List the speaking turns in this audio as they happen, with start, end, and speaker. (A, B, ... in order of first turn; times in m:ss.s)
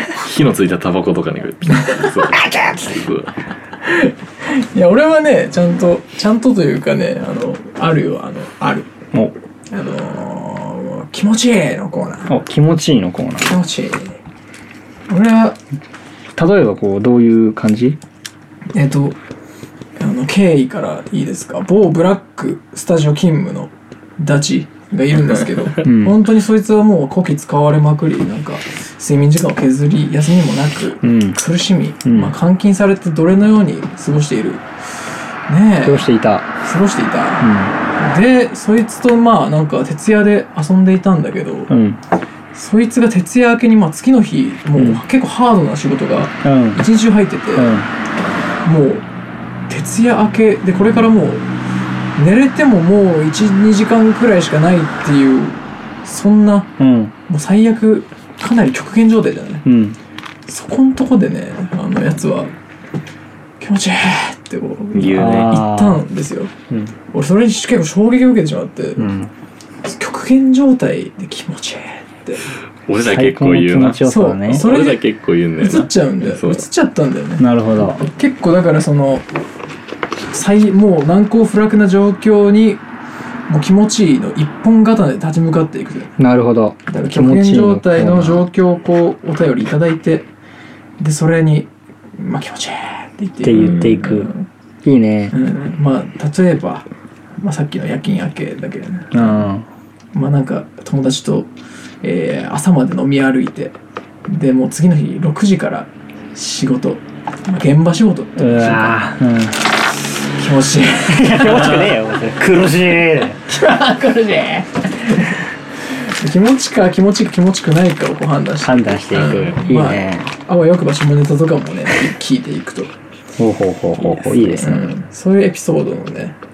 0:00.2-0:03.3 A
0:01.7-0:02.1 B
0:02.4-0:02.9 C
0:03.8-0:08.9 B
0:09.7-0:12.3 B
0:12.3-0:13.5 C
0:13.4-0:14.2 B
0:15.1-0:15.6 B
0:16.4-0:18.0 C
0:18.7-0:19.2 B
0:20.0-0:34.6 B
0:25.8-0:26.2 C
0:31.0-0:31.4 C
0:32.0-0:32.3 C
0:35.5-0:36.1 B
0:35.8-0:36.4 C
0:36.6-0:41.7 B
0:37.4-0:37.7 C
0:41.7-0:42.0 C
0:42.5-0:47.8 B
0:44.8-0:45.0 C
0:46.4-0:46.8 C
0:47.6-0:47.9 C
0:48.6-0:49.0 B
0:49.7-0:51.4 B
0:52.2-0:56.8 B
0:56.8-0:57.1 C
0:57.3-0:59.6 B
0:59.6-1:00.0 C
1:00.5-1:02.6 B
1:03.6-1:06.5 B
1:04.9-1:05.6 A
1:05.1-1:06.0 C
1:07.1-1:09.1 B
1:09.0-1:09.3 C
1:09.8-1:12.5 B
1:12.9-1:16.6 A
1:13.0-1:14.7 C
1:14.0-1:15.0 B
1:15.6-1:19.3 B
1:17.4-1:18.0 C
1:20.3-1:22.8 B
1:23.5-1:26.2 B
1:26.2-1:28.4 C
1:26.9-1:30.3 B
1:31.0-1:34.4 B
1:33.4-1:34.3 C
1:33.6-1:34.1 A
1:34.8-1:35.4 C
1:35.3-1:36.9 B
1:37.4-1:39.4 B
1:39.1-1:39.6 C
1:40.1-1:41.5 B
1:42.0-1:43.8 B
1:44.3-1:49.0 B
1:48.4-1:49.6 C
1:50.4-1:51.8 B
1:51.1-1:53.4 C
1:51.5-1:51.9 A
1:53.5-2:02.9 B
1:58.6-2:00.3 C
1:59.1-1:59.6 A
2:03.4-2:04.9 C
2:04.0-2:06.4 B